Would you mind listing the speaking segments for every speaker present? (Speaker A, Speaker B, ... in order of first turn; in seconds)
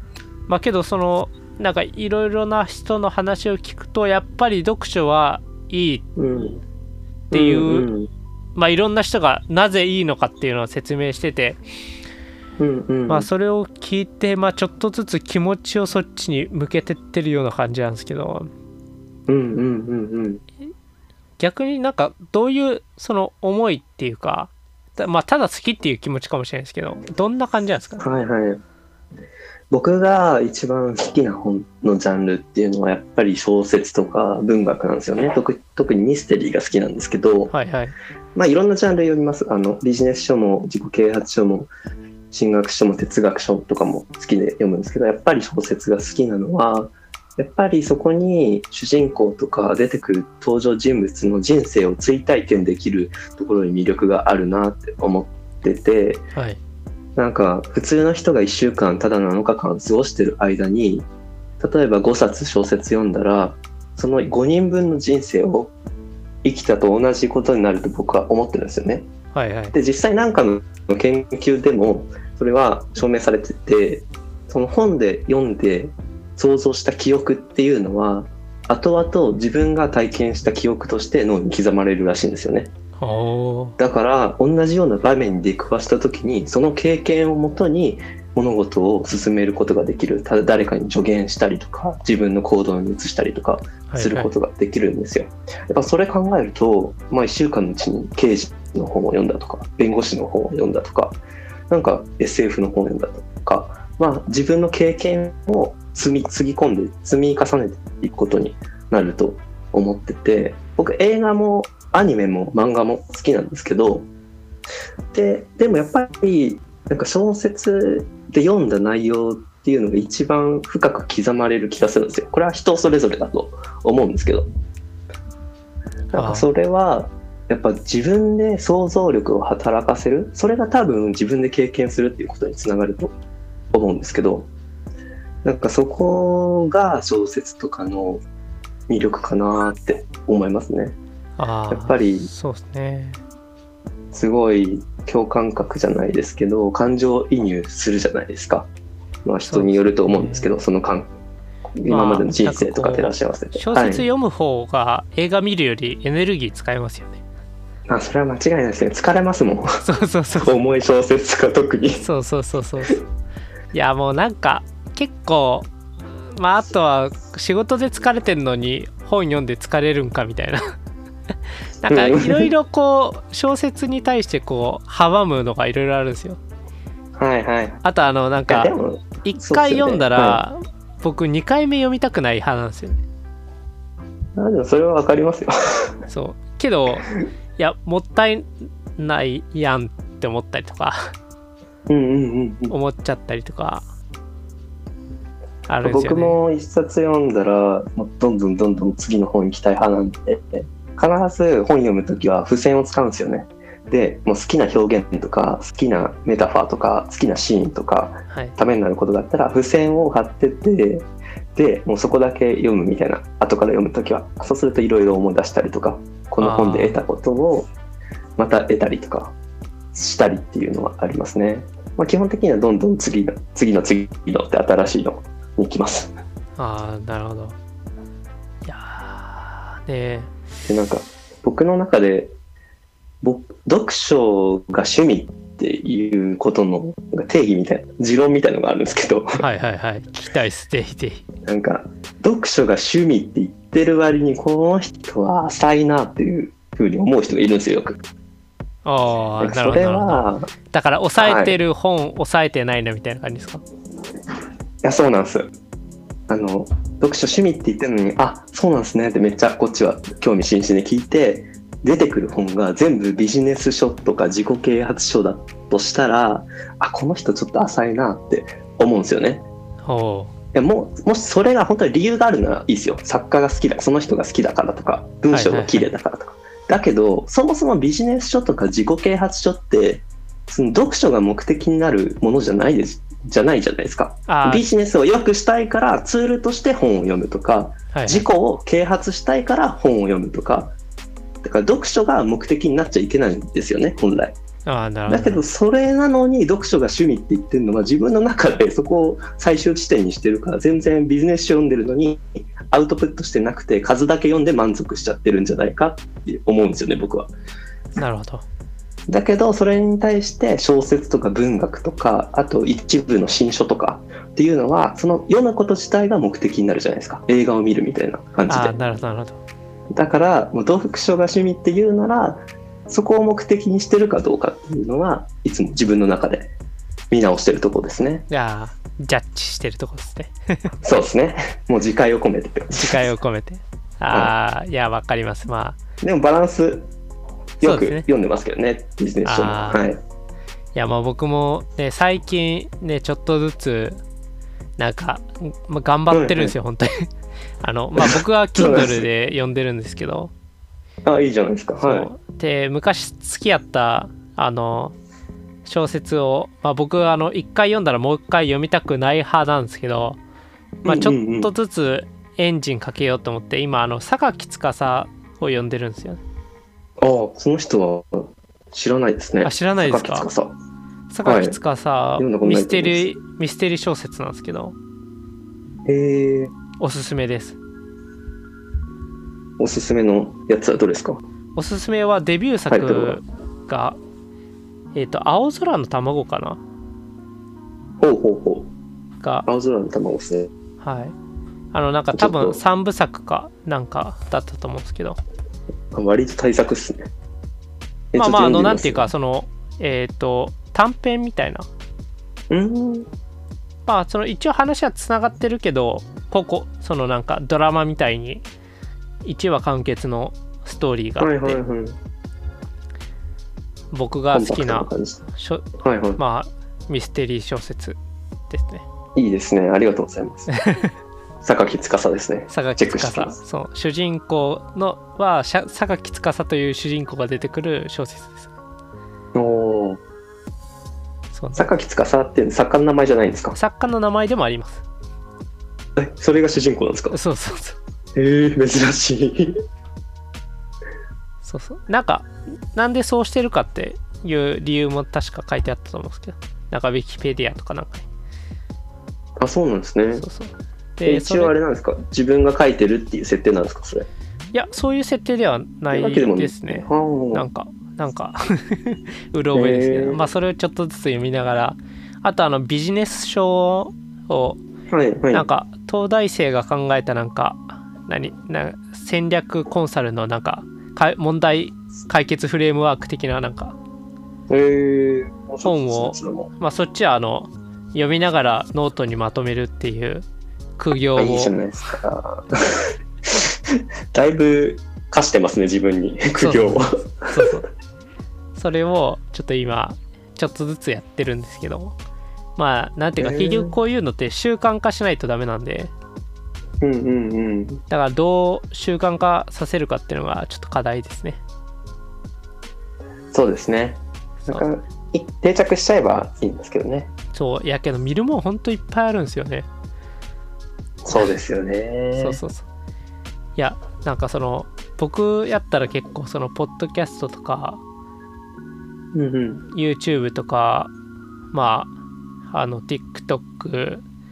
Speaker A: 0.5-6.1, 7.3-7.9, 8.6-11.6, 13.1-18.5, 21.4-28.1, 37.5-37.9, 69.3-69.8, 83.0-83.8, 93.9-94.3, 126.1-126.5, 141.4-143.2, 149.5-150.5, 151.9-157.2, 159.8-160.6, 162.0-163.0, 163.7-165.7, 166.3-170.6, 171.8-176.4, 177.8-183.0, 186.1-191.1, 192.7-193.8, 195.7-196.4, 208.3-208.6, 216.4-217.0, 226.6-227.6, 228.6-230.3, 239.4-241.2, 248.8-253.6, 269.8-270.3, 275.3-275.9, 284.3-284.6, 287.9-288.2, 294.6-295.4, 308.0-308.4, 318.5-319.4, 328.3-330.7, 332.7-335.8, 337.6-338.0, 339.2-339.8, 340.8-344.0, 344.8-347.1, 347.6-350.3, 351.8-354.9, 355.6-360.2, 360.8-366.2, 369.4-370.3, 371.1-374.8, 376.8-377.6, 381.6-384.0, 384.9-386.6, 389.2-389.5, 390.8-391.1, 391.7-395.2, 398.1-401.6, 403.9-408.4, 409.2-411.6, 413.9-415.6, 416.2-418.0, 418.5-418.8, 420.5-420.9, 422.5-428.5, 431.3-431.7, 433.5-434.8, 437.1-437.8, 441.4-448.1, 450.1-451.5, 454.5-464.6, 465.3-473.8, 475.6-480.2, 480.8-481.5, 486.4-487.6, 488.6-492.0, 492.6-495.9, 497.9-501.4, 507.3-509.7, 512.2-512.6, 513.5-517.8, 519.7-520.9, 521.5-521.9, 522.5-524.0
Speaker B: 6.2-6.6, 7.3-8.1, 12.6-13.3, 19.3-20.4, 28.0-28.6, 29.7-37.5, 38.3-41.7, 42.3-56.3, 57.1-61.1, 61.6-65.7, 66.4-69.1, 69.7-82.7, 83.8-114.1, 115.1-124.5, 126.1-133.1, 133.7-134.5, 135.4-138.2, 138.9-141.0, 141.7-142.3, 144.1-148.7, 149.2-151.1, 151.8-154.0, 157.9-159.8, 160.4-162.0, 171.9-172.5, 177.2-177.8, 178.5-180.4, 184.4-185.9, 191.9-192.7, 195.8-217.7, 218.4-219.3, 219.9-226.1, 230.7-232.3, 233.2-239.4, 241.5-248.0, 249.4-250.5, 251.2-251.6, 254.8-255.5, 256.3-269.5, 270.5-290.8, 291.4-294.4, 295.1-307.3, 309.1-318.8, 319.9-326.5, 327.1-328.2, 330.8-333.1, 336.0-336.9, 337.6-340.0, 346.1-346.5, 348.0-349.1, 351.0-352.1, 360.9-361.5, 367.0-370.6, 371.2-371.6, 372.2-373.1, 375.9-376.5, 379.6-381.2, 382.7-383.2, 388.0-388.7, 389.5-390.5, 392.1-392.6, 395.9-397.1, 398.1-399.1, 402.5-403.1, 411.2-412.0, 414.3-415.3, 415.8-416.2, 419.1-420.5, 421.4-423.4, 429.3-430.0, 431.6-433.6, 436.0-437.1, 438.1-439.6, 449.4-450.2, 451.0-454.1, 455.9-457.5, 459.5-460.2, 464.9-465.5, 474.5-476.5, 481.1-487.5, 493.2-493.8, 496.8-497.8, 503.3-507.1, 511.0-512.4, 519.1-519.6